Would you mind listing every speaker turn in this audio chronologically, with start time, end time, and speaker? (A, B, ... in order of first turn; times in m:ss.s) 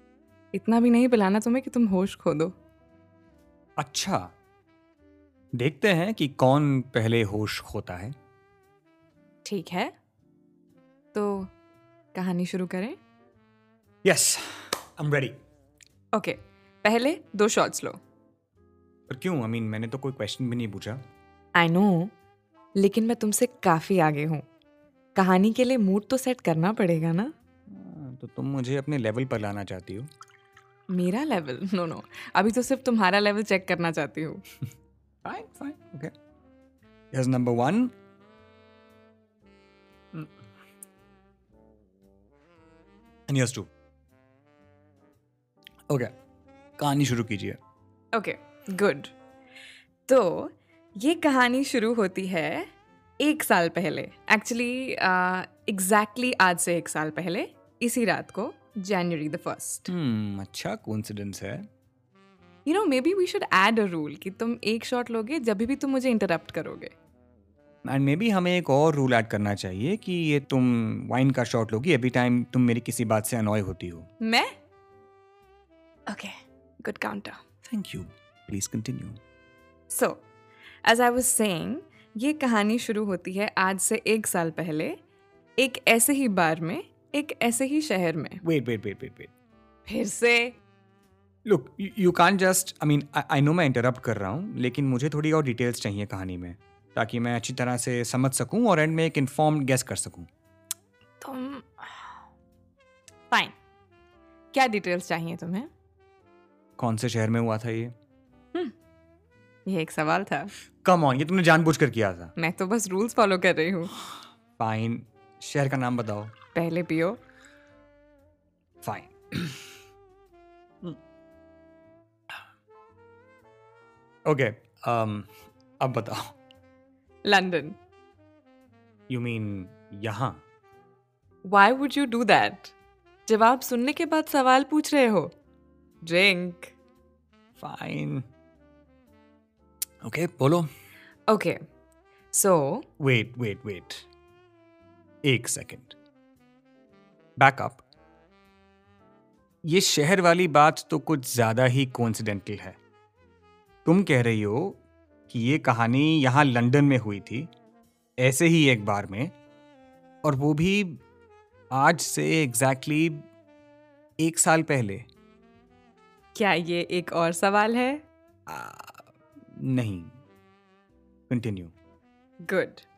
0:00.5-0:02.5 A
0:03.8-0:04.3 B
0:05.5-0:08.2 B
0:09.4-0:09.9 A
0:11.1-0:11.5 A
0:12.1-0:13.0 A
0:14.0-0:15.4 B
0:16.1-0:18.0 A
0:19.1-0:21.0 B
0:21.6-0:22.1 A
0:22.8-0:24.4 A
0:25.2-0:27.3 A
0:27.7-0:30.1 B
0:30.9-0:34.4 A
0:35.2-0:36.1 B
0:37.1-0:37.9 B
0:43.3-0:43.7 B
0:46.8-0:47.6 B
0:48.1-0:49.2 A
0:50.1-0:52.7 A
0:53.2-0:59.9 A
0:59.9-1:01.7 B
1:02.6-1:06.9 A
1:07.8-1:14.1 B
1:14.2-1:14.5 A
1:16.1-1:17.4 A
1:17.7-1:19.2 B
1:19.9-1:20.2 A
1:20.8-1:25.0 A
1:25.6-1:28.4 A
1:28.4-1:29.3 B
1:29.9-1:30.6 A
1:31.4-1:40.3 B
1:41.2-1:42.2 A
1:43.3-1:43.6 A
1:44.5-1:45.7 A
1:46.8-1:47.9 B
1:49.7-1:50.5 A
1:50.8-1:52.3 B
1:52.4-1:53.9 A
1:54.6-1:56.3 B
1:56.5-1:57.2 A
1:58.8-1:59.8 B
2:04.2-2:05.3 B
2:05.8-2:06.3 B
2:07.2-2:07.8 A
2:09.1-2:10.4 B
2:11.4-2:12.8 A
2:13.3-2:15.3 A
2:16.0-2:16.7 A
2:17.6-2:18.3 B
2:20.0-2:20.7 B
2:21.3-2:21.6 A
2:22.3-2:22.8 A
2:23.0-2:24.1 B
2:25.2-2:26.0 B
2:27.4-2:27.8 B
2:29.6-2:32.8 B
2:33.8-2:37.5 B
2:38.2-2:39.3 B
2:40.2-2:41.0 B
2:41.7-2:43.3 B
2:44.2-2:45.1 B
2:46.4-2:48.0 A
2:48.5-2:50.2 B
2:51.3-2:51.7 B
2:52.4-2:52.8 A